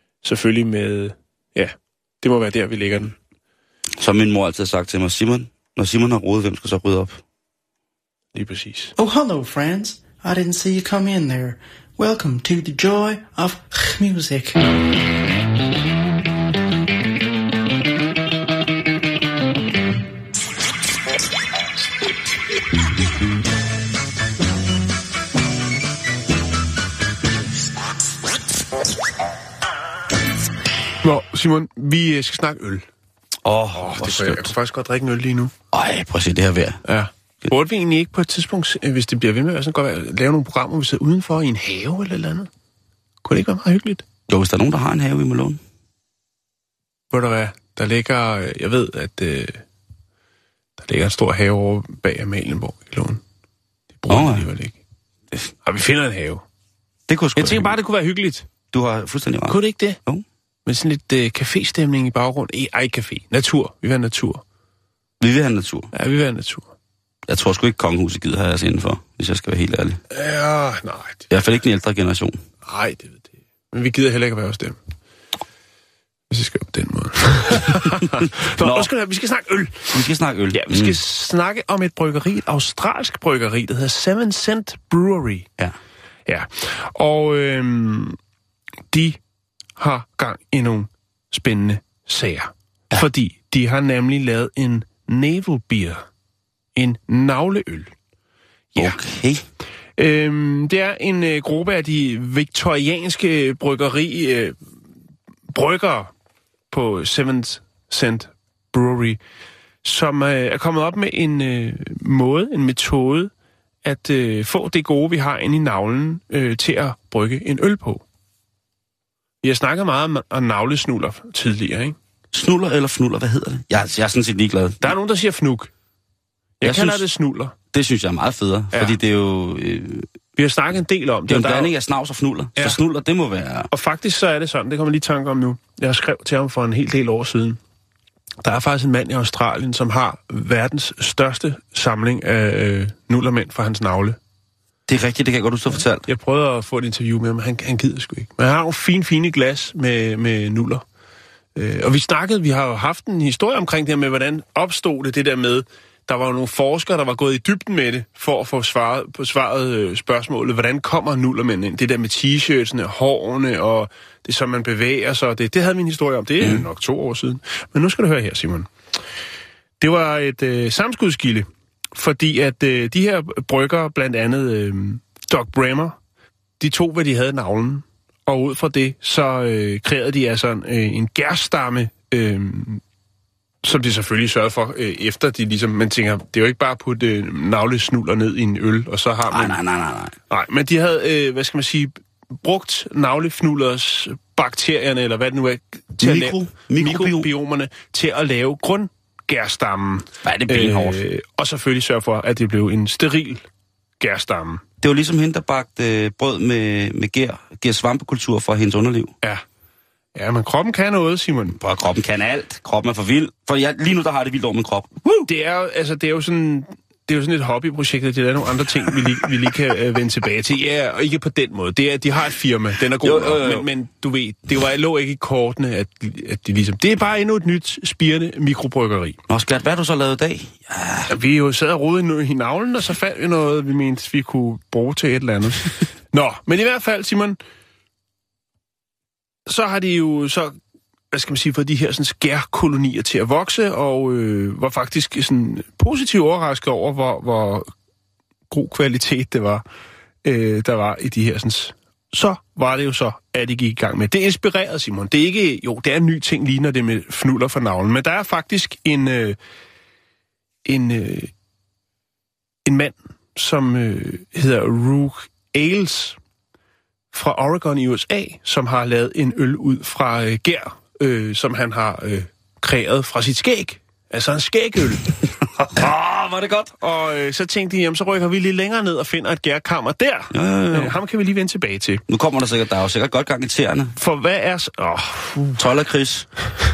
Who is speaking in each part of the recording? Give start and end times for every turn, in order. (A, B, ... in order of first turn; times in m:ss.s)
0:00.2-0:03.1 A
0:04.0-0:07.2 B
0:08.3-0:08.9 A
0:09.0-0:14.7 C
0:31.0-0:32.8 A
0:33.4-0:34.5 B
0:33.7-0:35.5 A
0:35.7-0:36.8 B
0:36.8-0:42.5 A
0:43.2-0:44.0 A
0:44.3-0:45.6 B
0:47.1-0:49.6 A
0:50.8-0:53.2 A
0:54.0-0:54.8 A
0:54.1-0:54.5 B
0:55.6-0:56.4 A
0:57.1-0:57.8 B
0:57.4-0:58.4 A
0:58.7-1:00.2 B
0:59.5-1:00.0 A
1:00.6-1:04.4 A
1:05.2-1:05.9 B
1:05.9-1:06.7 A
1:07.3-1:10.0 B
1:10.1-1:11.2 A
1:11.3-1:12.4 B
1:12.6-1:14.8 A
1:16.3-1:20.0 A
1:18.2-1:18.9 B
1:19.9-1:21.0 B
1:20.5-1:25.5 A
1:26.3-1:28.2 A
1:28.9-1:29.2 A
1:29.8-1:36.0 A
1:36.8-1:37.9 A
1:38.7-1:39.0 A
1:38.8-1:39.4 B
1:40.0-1:44.6 A
1:45.5-1:46.1 A
1:46.7-1:49.2 A
1:49.8-1:53.3 A
1:53.8-1:58.0 A
1:59.4-2:02.0 A
2:02.3-2:04.9 B
2:04.8-2:05.7 A
2:06.6-2:07.5 A
2:06.6-2:07.0 B
2:07.7-2:10.1 B
2:10.4-2:11.7 A
2:11.3-2:13.7 B
2:13.7-2:17.6 A
2:18.4-2:24.2 A
2:24.9-2:26.0 B
2:26.0-2:30.8 A
2:31.6-2:48.7 A
2:46.4-2:46.6 B
2:49.8-2:56.0 A
2:56.6-3:02.8 A
3:03.6-3:09.6 A
3:09.3-3:10.2 B
3:10.3-3:23.4 A
3:16.0-3:17.3 B
3:20.2-3:21.0 B
3:24.0-3:24.6 A
3:24.8-3:29.1 B
3:30.1-3:31.6 A
3:31.5-3:35.3 B
3:35.2-3:49.2 A
3:43.0-3:43.7 B
3:49.3-3:51.1 B
3:51.1-3:57.4 A
3:59.5-4:00.6 A
4:01.1-4:07.7 A
4:08.5-4:09.6 A
4:10.2-4:19.4 A
4:20.6-4:21.3 A
4:22.6-4:26.2 A
4:27.1-4:35.1 A
4:35.6-4:36.8 B
4:36.8-4:42.0 A
4:40.3-4:41.0 B
4:42.1-4:43.9 B
4:44.0-4:45.6 A
4:45.6-4:46.3 B